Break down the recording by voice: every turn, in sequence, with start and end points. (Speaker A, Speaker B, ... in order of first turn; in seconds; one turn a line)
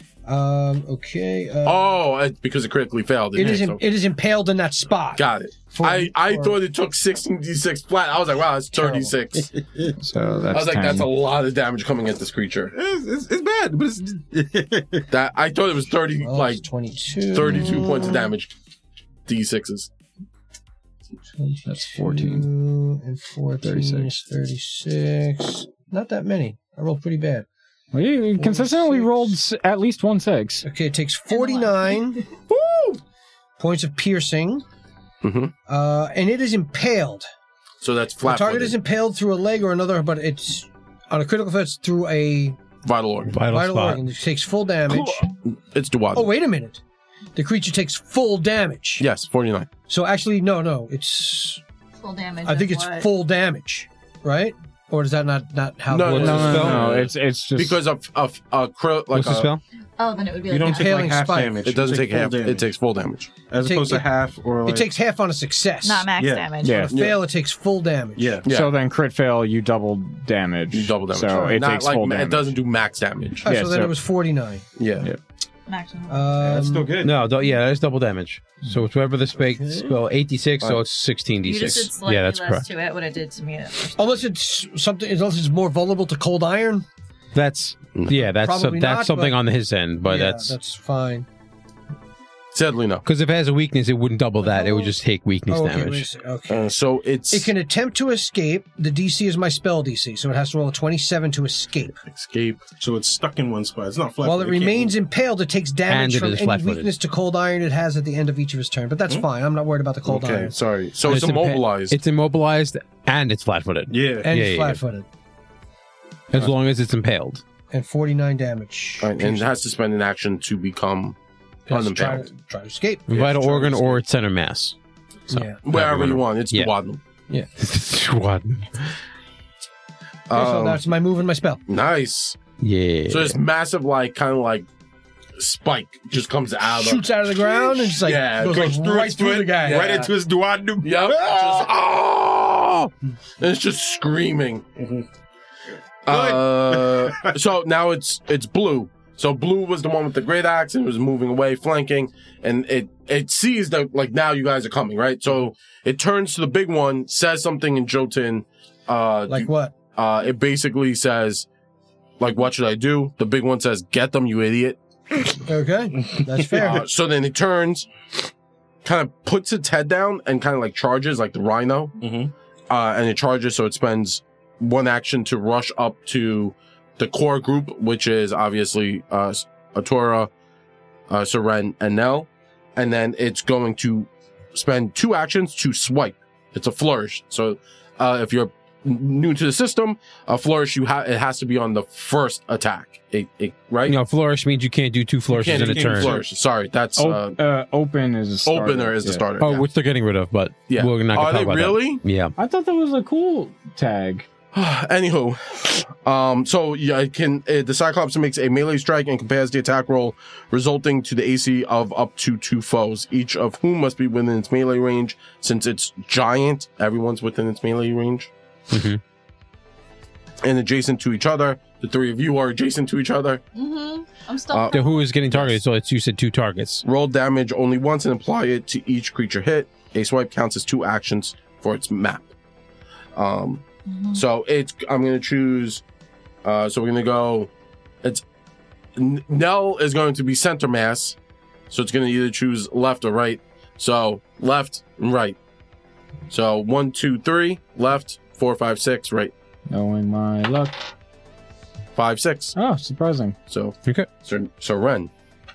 Speaker A: 0.2-1.9
Speaker B: 1.6-3.8
Speaker A: 3.4-6.6
Speaker B: 5.2-9.5
Speaker A: 8.7-9.1
Speaker C: 9.5-9.9
Speaker D: 10.0-11.1
Speaker B: 10.5-12.7
Speaker C: 12.7-15.1
Speaker B: 15.1-16.6
Speaker A: 16.2-18.3
Speaker B: 17.3-18.5
Speaker B: 19.3-19.9
Speaker A: 21.4-27.4
Speaker D: 21.7-22.5
Speaker D: 23.6-24.1
Speaker D: 27.9-30.6
Speaker A: 28.4-29.1
Speaker A: 30.6-32.4
Speaker E: 31.3-31.9
Speaker B: 32.5-32.9
Speaker A: 33.6-34.6
Speaker B: 35.2-35.5
Speaker A: 35.7-37.3
Speaker B: 37.8-38.8
Speaker A: 38.2-42.6
Speaker B: 42.8-43.4
Speaker F: 43.3-44.0
Speaker A: 43.5-45.3
Speaker B: 44.9-46.3
Speaker A: 46.1-46.8
Speaker A: 47.4-49.0
Speaker B: 49.0-49.7
Speaker A: 49.9-51.6
Speaker E: 52.0-53.1
Speaker A: 52.4-56.8
Speaker B: 55.9-59.5
Speaker F: 56.0-56.9
Speaker D: 56.1-57.8
Speaker F: 59.1-59.6
Speaker E: 60.0-61.2
Speaker C: 60.5-62.7
Speaker A: 60.6-61.6
Speaker B: 61.6-63.3
Speaker C: 63.5-64.9
Speaker A: 63.6-66.1
Speaker E: 65.8-66.9
Speaker C: 66.2-66.9
Speaker D: 66.6-67.0
Speaker A: 66.8-68.4
Speaker B: 66.9-67.2
Speaker C: 68.2-68.4
Speaker B: 68.4-68.7
Speaker D: 68.5-72.5
Speaker B: 70.7-73.5
Speaker D: 73.4-73.9
Speaker A: 73.4-74.6
Speaker B: 74.8-75.1
Speaker E: 75.7-76.5
Speaker A: 76.1-77.0
Speaker C: 76.4-77.2
Speaker F: 77.0-82.7
Speaker A: 79.4-80.0
Speaker E: 81.4-84.0
Speaker A: 84.0-86.8
Speaker F: 87.3-90.5
Speaker A: 88.1-89.4
Speaker A: 90.0-91.2
Speaker B: 92.5-93.0
Speaker F: 93.0-96.1
Speaker A: 94.4-94.9
Speaker A: 95.5-96.7
Speaker B: 96.5-97.5
Speaker A: 97.3-102.0
Speaker B: 102.1-102.6
Speaker C: 102.8-104.9
Speaker A: 104.2-110.5
Speaker F: 105.9-106.9
Speaker B: 110.0-112.0
Speaker F: 111.0-114.8
Speaker C: 113.9-114.3
Speaker A: 114.2-115.0
Speaker F: 116.3-117.4
Speaker A: 117.7-119.5
Speaker B: 119.0-121.2
Speaker B: 121.7-122.3
Speaker A: 121.7-123.2
Speaker F: 123.1-124.8
Speaker B: 123.1-124.0
Speaker A: 125.3-125.6
Speaker F: 125.3-126.7
Speaker B: 125.6-127.0
Speaker F: 127.6-128.9
Speaker B: 130.3-130.8
Speaker A: 130.3-131.6
Speaker B: 131.7-132.4
Speaker F: 132.6-133.4
Speaker B: 133.1-134.7
Speaker B: 135.4-138.8
Speaker A: 136.7-140.1
Speaker C: 138.4-141.6
Speaker B: 139.6-140.1
Speaker B: 140.8-144.6
Speaker C: 144.8-145.1
Speaker B: 146.1-161.5
Speaker C: 146.1-147.3
Speaker A: 159.3-159.7
Speaker B: 162.2-164.8
Speaker A: 165.5-166.9
Speaker C: 166.1-166.8
Speaker B: 166.6-167.9
Speaker B: 168.8-171.9
Speaker C: 172.0-172.3
Speaker B: 172.7-180.3
Speaker B: 181.1-194.0
Speaker F: 193.8-196.2
Speaker B: 195.4-197.4
Speaker C: 195.4-196.2
Speaker D: 197.0-199.2
Speaker B: 198.4-199.7
Speaker F: 199.4-202.3
Speaker B: 200.7-202.0
Speaker D: 202.4-204.3
Speaker B: 204.5-218.3
Speaker F: 218.7-219.0
Speaker B: 220.4-223.4
Speaker E: 223.5-225.1
Speaker B: 224.5-225.6
Speaker F: 224.7-226.8
Speaker B: 226.8-232.3
Speaker B: 233.2-235.8
Speaker E: 233.9-234.2
Speaker B: 236.4-237.5
Speaker B: 238.9-241.2
Speaker B: 241.7-245.4
Speaker B: 246.3-249.3
Speaker D: 249.7-250.8
Speaker B: 251.9-252.5
Speaker D: 252.5-253.3
Speaker B: 253.5-255.1